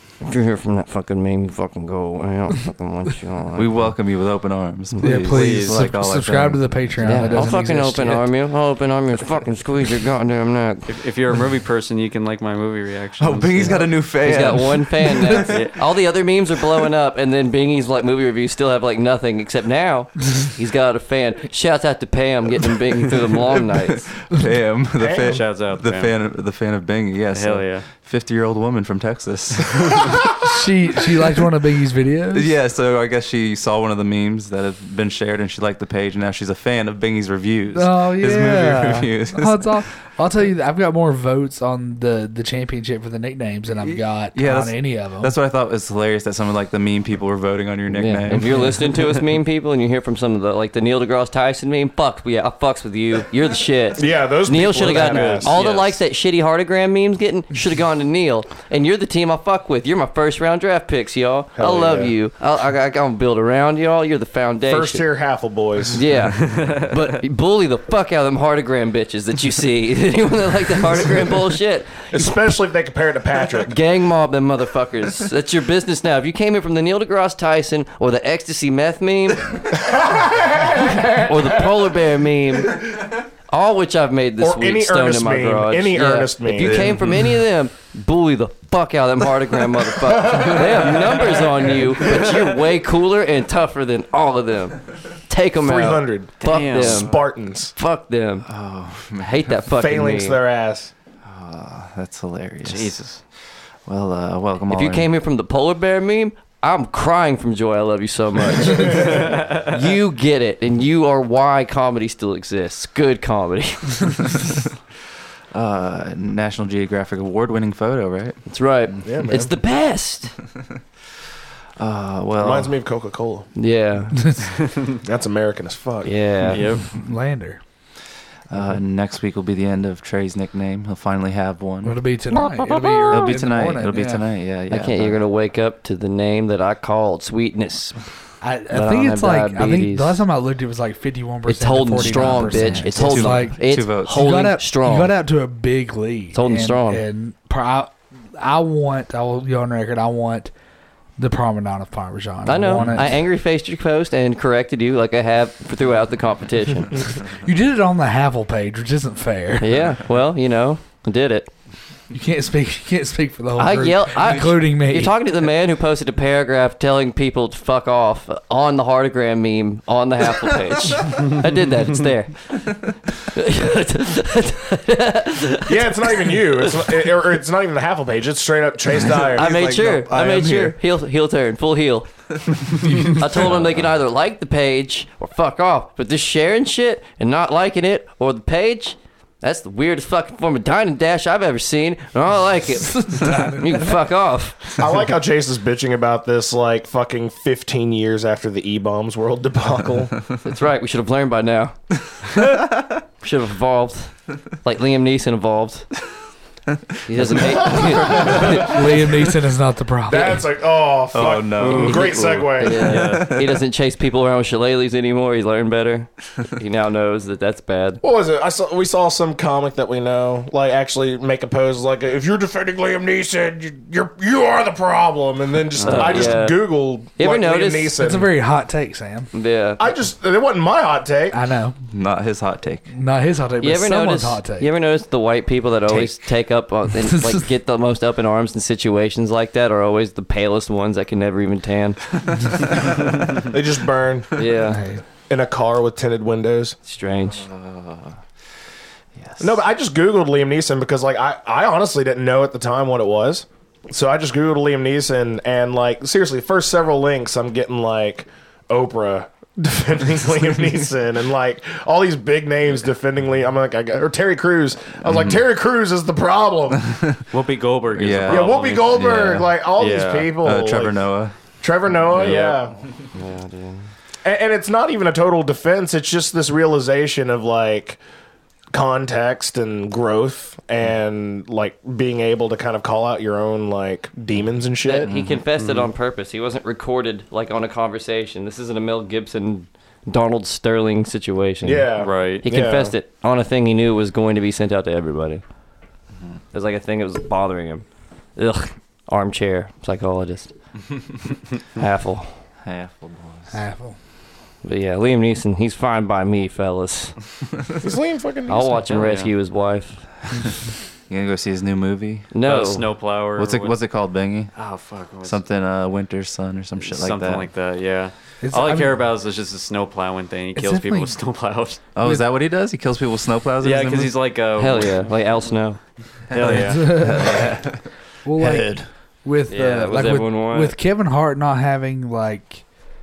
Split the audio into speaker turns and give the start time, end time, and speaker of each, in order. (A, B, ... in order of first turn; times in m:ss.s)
0:00.2-0:03.9 A
0:03.6-0:07.4 B
0:05.0-0:08.3 C
0:05.2-0:05.8 D
0:07.0-0:10.8 A
0:10.9-0:13.8 D
0:13.2-0:15.2 B
0:14.2-0:24.0 A
0:15.4-0:15.8 D
0:23.5-0:30.0 B
0:25.0-0:25.5 E
0:25.2-0:26.1 D
0:27.3-0:27.8 D
0:30.4-0:32.5 C
0:32.3-0:39.9 B
0:37.7-0:45.3 C
0:43.8-0:49.1 B
0:47.9-1:05.0 A
0:54.0-0:55.6 E
0:54.8-0:56.0 D
1:01.6-1:02.1 E
1:04.6-1:06.0 E
1:05.9-1:12.4 A
1:06.4-1:07.0 D
1:12.1-1:13.8 E
1:13.6-1:19.7 A
1:19.8-1:21.3 E
1:21.2-1:22.8 A
1:23.5-1:37.2 A
1:24.4-1:26.9 E
1:26.6-1:27.3 B
1:35.6-1:37.7 E
1:36.4-1:37.1 D
1:37.7-1:38.5 A
1:38.5-1:39.5 B
1:39.2-1:40.4 A
1:39.7-1:40.9 E
1:41.2-1:45.1 B
1:42.6-1:43.2 D
1:44.7-1:54.4 A
1:55.5-1:58.4 B
1:58.5-2:00.3 A
1:59.0-1:59.5 E
2:01.8-2:02.7 B
2:02.4-2:03.5 E
2:03.6-2:04.2 A
2:05.0-2:06.1 E
2:06.0-2:06.6 A
2:06.5-2:06.8 D
2:06.9-2:07.6 C
2:08.5-2:12.0 B
2:11.8-2:14.2 C
2:12.6-2:13.0 A
2:13.1-2:15.2 B
2:14.7-2:18.0 A
2:18.4-2:30.5 C
2:18.7-2:20.2 A
2:21.5-2:25.1 A
2:22.0-2:24.2 B
2:26.3-2:27.0 A
2:31.2-2:33.1 C
2:32.4-2:37.0 A
2:37.4-2:39.8 C
2:39.6-2:41.5 A
2:42.1-2:45.1 C
2:43.6-2:56.7 A
2:55.6-3:00.1 E
2:59.2-3:00.7 B
2:59.3-3:02.1 A
3:03.0-3:14.8 A
3:12.9-3:13.8 C
3:14.8-3:20.2 E
3:20.4-3:21.8 A
3:22.4-3:22.9 B
3:23.2-3:25.9 A
3:27.0-3:28.7 A
3:27.3-3:28.3 B
3:27.6-3:28.8 E
3:28.1-3:30.4 C
3:30.1-3:33.0 E
3:31.1-3:33.6 B
3:31.6-3:32.4 D
3:31.7-3:32.0 A
3:32.6-3:38.0 A
3:38.0-3:48.3 E
3:45.8-3:46.3 D
3:45.8-3:47.9 A
3:48.0-3:49.3 C
3:49.3-3:49.8 A
3:49.8-3:51.4 E
3:51.3-3:51.8 C
3:51.9-3:52.9 B
3:52.9-3:54.7 C
3:53.6-4:02.0 A
3:57.0-3:57.4 C
4:03.3-4:04.3 E
4:04.3-4:04.8 A
4:04.7-4:05.0 C
4:05.3-4:06.8 E
4:06.9-4:07.4 A
4:07.3-4:08.2 B
4:09.2-4:09.6 B
4:09.4-4:26.9 E
4:25.0-4:25.4 B
4:26.9-4:27.2 B
4:27.3-4:30.3 D
4:27.9-4:29.5 B
4:28.3-4:32.7 E
4:30.4-4:31.3 B
4:32.1-4:32.5 B
4:32.2-4:32.6 D
4:33.1-4:33.9 A
4:34.2-4:38.0 E
4:38.7-4:45.1 E
4:44.8-4:51.9 A
4:45.1-4:45.4 B
4:45.6-4:45.9 D
4:51.6-4:52.9 E
4:52.0-4:52.4 D
4:52.4-4:55.4 A
4:56.5-4:57.8 A
4:58.4-5:00.5 A
5:01.8-5:02.3 A
5:02.6-5:03.5 B
5:03.5-5:04.0 C
5:04.6-5:07.2 A
5:07.8-5:08.8 E
5:08.5-5:10.1 A
5:08.9-5:09.3 D
5:11.1-5:12.3 B
5:12.3-5:12.8 A
5:12.4-5:13.8 D
5:13.3-5:14.6 B
5:14.6-5:15.4 D
5:15.2-5:17.5 B
5:16.8-5:21.8 D
5:18.4-5:19.0 C
5:20.5-5:21.2 C
5:21.9-5:24.2 B
5:23.6-5:25.0 D
5:24.6-5:25.8 A
5:26.3-5:28.9 B
5:26.3-5:27.5 D
5:26.4-5:27.6 C
5:28.2-5:32.6 C
5:29.5-5:30.8 A